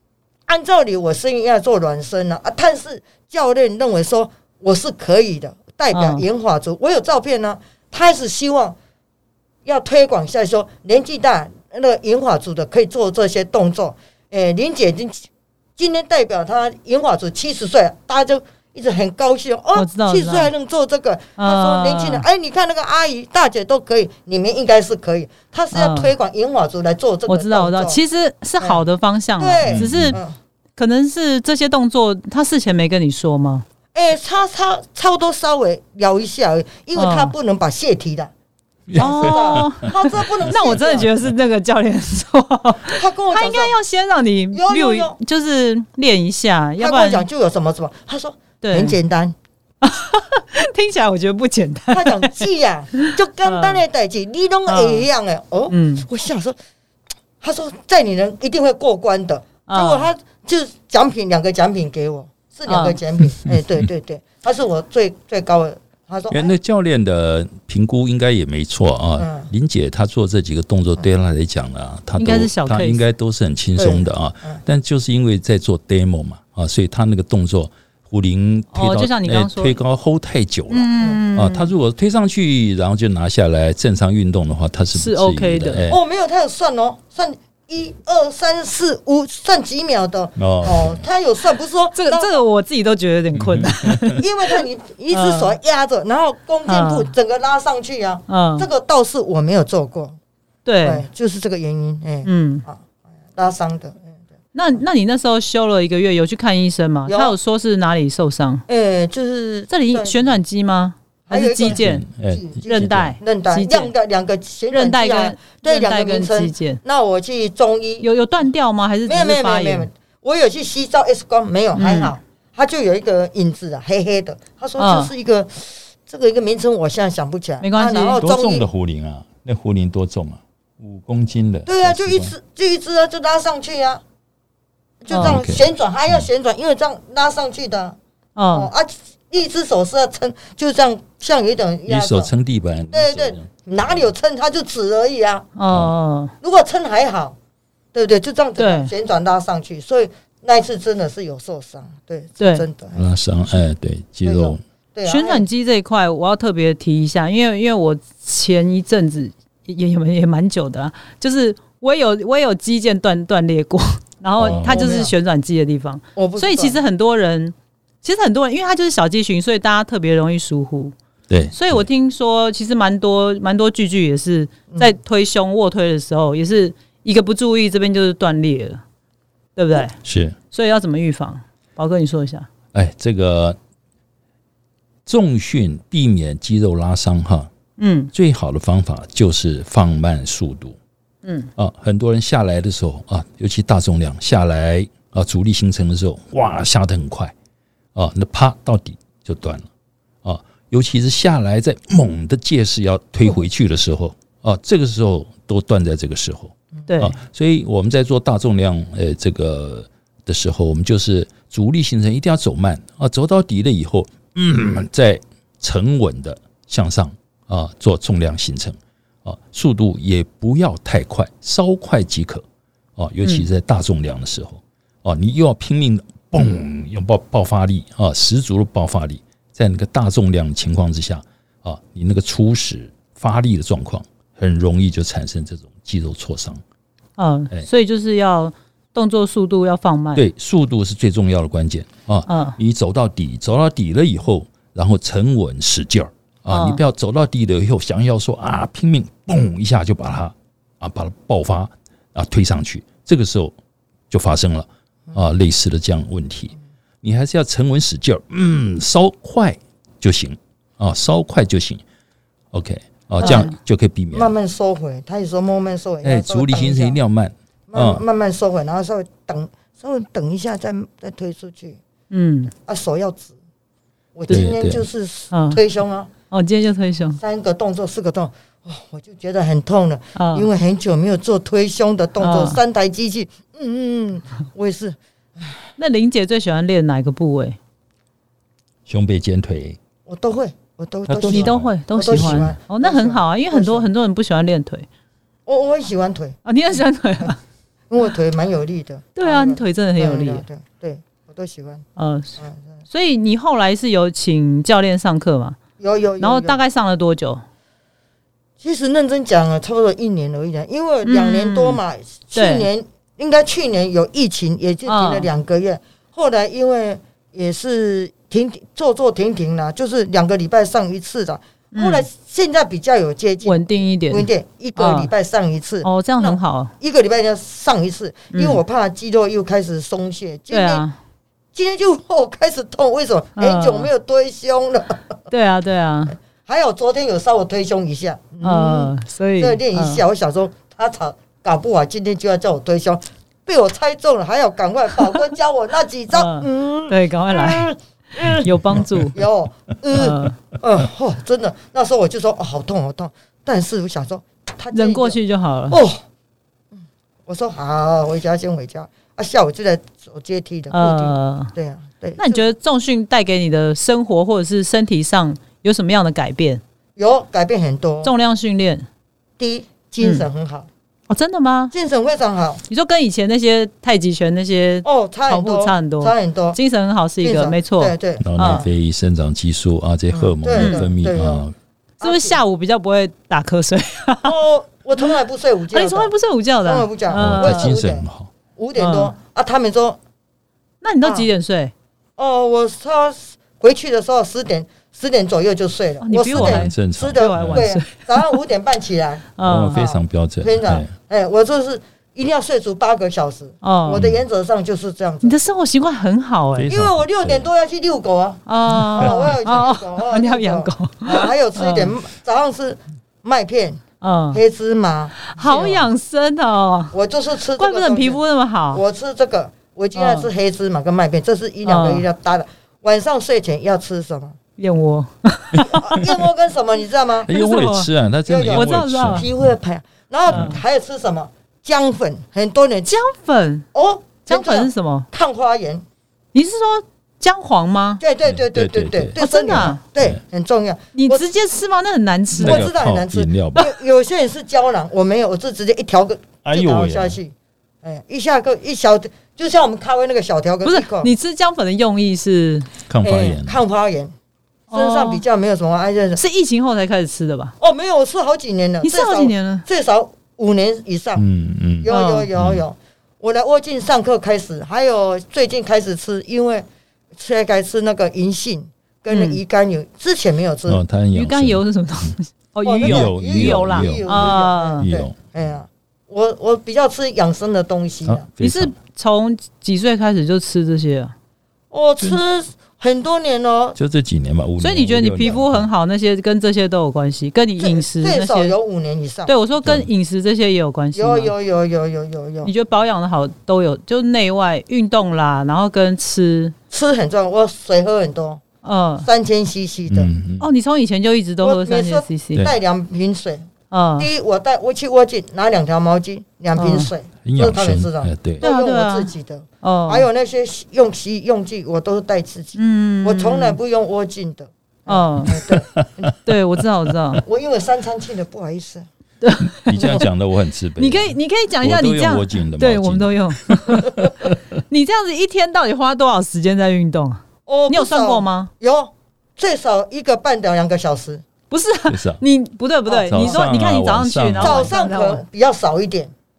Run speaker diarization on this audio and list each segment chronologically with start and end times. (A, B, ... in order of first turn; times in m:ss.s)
0:00.5-0:08.8 A
0:05.9-0:06.2 B
0:09.6-0:28.0 A
0:19.7-0:20.5 B
0:21.4-0:22.2 B
0:25.7-0:26.1 B
0:27.3-0:30.2 B
0:29.4-0:30.3 A
0:29.7-0:30.2 C
0:30.8-0:33.6 B
0:33.9-0:38.3 A
0:36.9-0:37.3 B
0:38.9-0:39.9 C
0:38.9-0:41.1 A
0:38.9-0:39.9 B
0:40.4-0:47.2 B
0:42.8-0:43.7 A
0:44.5-0:45.2 A
0:46.8-0:49.3 A
0:48.6-0:49.0 B
0:49.8-0:53.8 B
0:51.9-0:56.6 A
0:54.7-0:55.0 B
0:55.7-0:56.0 B
0:57.4-1:06.5 A
0:59.7-1:00.1 B
1:02.7-1:03.0 B
1:06.3-1:26.0 C
1:09.2-1:09.5 A
1:12.2-1:13.0 B
1:13.8-1:14.6 A
1:18.7-1:19.8 B
1:20.7-1:21.7 B
1:21.0-1:21.2 A
1:24.9-1:25.9 B
1:25.9-1:32.4 A
1:30.4-1:31.0 C
1:31.9-1:35.6 B
1:33.3-1:34.2 C
1:34.2-1:40.2 A
1:36.7-1:37.1 B
1:38.3-1:38.7 B
1:40.6-1:41.0 B
1:40.8-1:42.8 A
1:42.2-1:42.6 B
1:43.4-1:44.2 A
1:44.5-1:48.6 B
1:47.1-1:47.4 A
1:48.7-1:50.3 A
1:49.7-1:52.0 B
1:51.3-1:58.0 A
1:51.6-1:53.1 C
1:52.7-1:53.9 B
1:54.7-1:56.8 B
1:58.0-1:59.9 B
1:59.0-2:08.6 A
2:01.7-2:02.1 B
2:04.8-2:05.1 B
2:07.6-2:08.2 B
2:08.2-2:12.3 C
2:11.6-2:14.0 A
2:15.0-2:18.0 A
2:15.1-2:15.4 B
2:15.2-2:16.3 C
2:18.4-2:18.7 B
2:18.5-2:22.3 A
2:21.9-2:24.1 C
2:22.9-2:25.5 A
2:25.6-2:26.3 B
2:26.4-2:27.3 A
2:27.9-2:33.0 A
2:28.6-2:28.9 B
2:32.4-2:32.6 B
2:33.0-2:34.6 C
2:34.2-2:35.4 A
2:35.0-2:50.9 B
2:44.4-2:44.9 C
2:44.4-2:45.1 A
2:46.2-2:46.8 A
2:51.3-2:51.8 C
2:51.5-2:58.8 B
2:59.6-2:59.9 B
3:00.0-3:00.4 C
3:00.5-3:02.5 B
3:02.7-3:03.6 C
3:05.0-3:07.5 C
3:07.8-3:08.1 B
3:08.1-3:10.8 C
3:11.2-3:11.5 B
3:11.6-3:17.3 C
3:17.9-3:19.7 C
3:20.2-3:42.4 C
3:26.9-3:27.2 B
3:43.0-3:56.6 C
3:57.2-4:00.2 B
4:00.1-4:13.5 C
4:02.3-4:02.6 B
4:06.5-4:06.8 B
4:14.1-4:21.8 C
4:22.5-4:24.3 C
4:23.2-4:23.5 A
4:23.2-4:23.5 B
4:24.1-4:27.0 A
4:26.0-4:28.0 C
4:27.7-4:31.8 A
4:32.1-4:32.5 B
4:32.5-4:33.3 A
4:34.2-4:36.1 A
4:34.3-4:34.8 C
4:35.3-4:35.6 B
4:36.3-4:37.2 B
4:37.2-4:45.5 A
4:40.2-4:40.5 B
4:42.2-4:42.6 B
4:45.8-4:47.6 B
4:48.8-4:49.8 C
4:50.0-4:53.9 A
4:51.1-4:52.5 C
4:51.2-4:54.9 B
4:55.5-4:56.8 A
4:56.4-4:57.4 B
4:57.9-5:01.8 A
4:59.2-5:00.4 B
5:02.0-5:02.4 B
5:02.9-5:05.6 B
5:05.8-5:06.6 A
5:06.2-5:07.4 B
5:08.6-5:30.8 A
5:11.0-5:11.8 B
5:12.3-5:12.7 B
5:14.8-5:15.3 B
5:21.7-5:22.1 B
5:23.4-5:25.1 B
5:25.8-5:26.7 B
5:28.3-5:28.6 B
5:30.5-5:31.0 B
5:31.5-5:35.0 A
5:33.4-5:33.9 B
5:35.3-5:36.2 B
5:36.4-5:55.2 A
5:38.4-5:40.0 B
5:46.1-5:49.2 B
5:49.9-5:50.4 B
5:54.7-5:55.8 B
5:55.7-5:56.0 A
5:56.7-6:02.4 A
6:00.7-6:01.5 B
6:02.2-6:06.6 B
6:07.0-6:08.1 A
6:08.0-6:08.8 B
6:09.4-6:10.7 A
6:10.0-6:10.2 B
6:11.1-6:11.7 B
6:11.7-6:12.6 A
6:12.7-6:18.6 B
6:14.8-6:16.6 A
6:17.2-6:18.7 A
6:18.2-6:21.5 C
6:20.1-6:21.4 A
6:20.6-6:20.9 B
6:22.0-6:22.4 A
6:22.0-6:24.3 B
6:24.2-6:26.1 A
6:25.7-6:27.7 B
6:26.6-6:30.0 A
6:27.1-6:28.3 C
6:28.8-6:29.1 B
6:30.8-6:31.7 B
6:31.0-6:31.3 A
6:32.2-6:45.3 A
6:36.0-6:38.2 B
6:36.3-6:37.7 C
6:39.4-6:39.8 B
6:39.4-6:40.9 C
6:43.6-6:44.0 B
6:44.0-6:44.2 C
6:45.2-6:46.7 B
6:46.6-6:47.5 C
6:46.7-6:53.8 A
6:48.5-6:51.9 B
6:49.0-6:49.3 C
6:54.0-6:54.4 B
6:54.3-6:55.9 A
6:55.2-6:56.9 B
6:56.9-6:58.2 A
6:57.6-6:58.8 B
6:58.7-7:04.4 A
6:59.9-7:00.3 B
7:01.6-7:02.1 B
7:04.6-7:06.1 B
7:05.6-7:07.3 A
7:07.2-7:09.4 C
7:07.3-7:07.9 B
7:08.3-7:13.0 A
7:08.5-7:09.2 B
7:10.3-7:10.6 B
7:10.3-7:10.6 C
7:12.9-7:13.6 B
7:13.7-7:15.8 A
7:14.3-7:15.1 B
7:16.3-7:18.0 B
7:18.0-7:21.2 A
7:18.2-7:20.2 C
7:19.2-7:19.8 B
7:20.9-7:22.7 B
7:22.4-7:31.1 A
7:22.4-7:23.7 C
7:26.4-7:27.2 C
7:30.6-7:32.7 B
7:32.9-7:33.6 C
7:33.0-7:34.1 A
7:34.7-7:35.2 B
7:34.7-7:36.2 A
7:36.2-7:37.5 B
7:37.6-7:41.2 A
7:38.8-7:39.6 B
7:41.2-7:42.6 C
7:41.8-7:46.6 A
7:41.9-7:42.3 B
7:47.2-7:50.8 A
7:49.1-7:49.4 B
7:50.7-7:52.1 C
7:51.1-7:54.9 B
7:52.6-7:58.2 A
7:52.8-7:55.2 C
7:58.0-7:58.7 C
7:58.4-8:01.1 B
8:01.7-8:03.8 A
8:03.8-8:05.6 C
8:04.6-8:08.5 B
8:07.6-8:09.3 A
8:09.3-8:11.3 B
8:09.6-8:09.9 C
8:10.9-8:12.5 A
8:12.4-8:16.5 B
8:16.7-8:18.4 A
8:18.6-8:19.1 B
8:19.0-8:20.1 A
8:19.9-8:20.4 C
8:20.4-8:22.4 B
8:21.4-8:23.5 A
8:23.7-8:24.1 B
8:24.0-8:36.1 A
8:26.5-8:26.9 B
8:27.2-8:28.4 C
8:28.4-8:29.1 B
8:29.6-8:30.1 B
8:32.5-8:33.6 B
8:34.9-8:35.4 B
8:35.4-8:36.1 C
8:36.2-8:37.2 B
8:37.2-8:38.8 A
8:39.2-8:40.0 B
8:39.4-8:44.3 C
8:39.7-8:40.0 A
8:40.8-8:44.0 B
8:44.7-8:48.5 B
8:47.5-8:51.2 A
8:51.5-8:55.2 B
8:51.9-8:52.2 C
8:52.9-8:53.3 A
8:53.1-8:54.7 C
8:54.4-8:56.1 A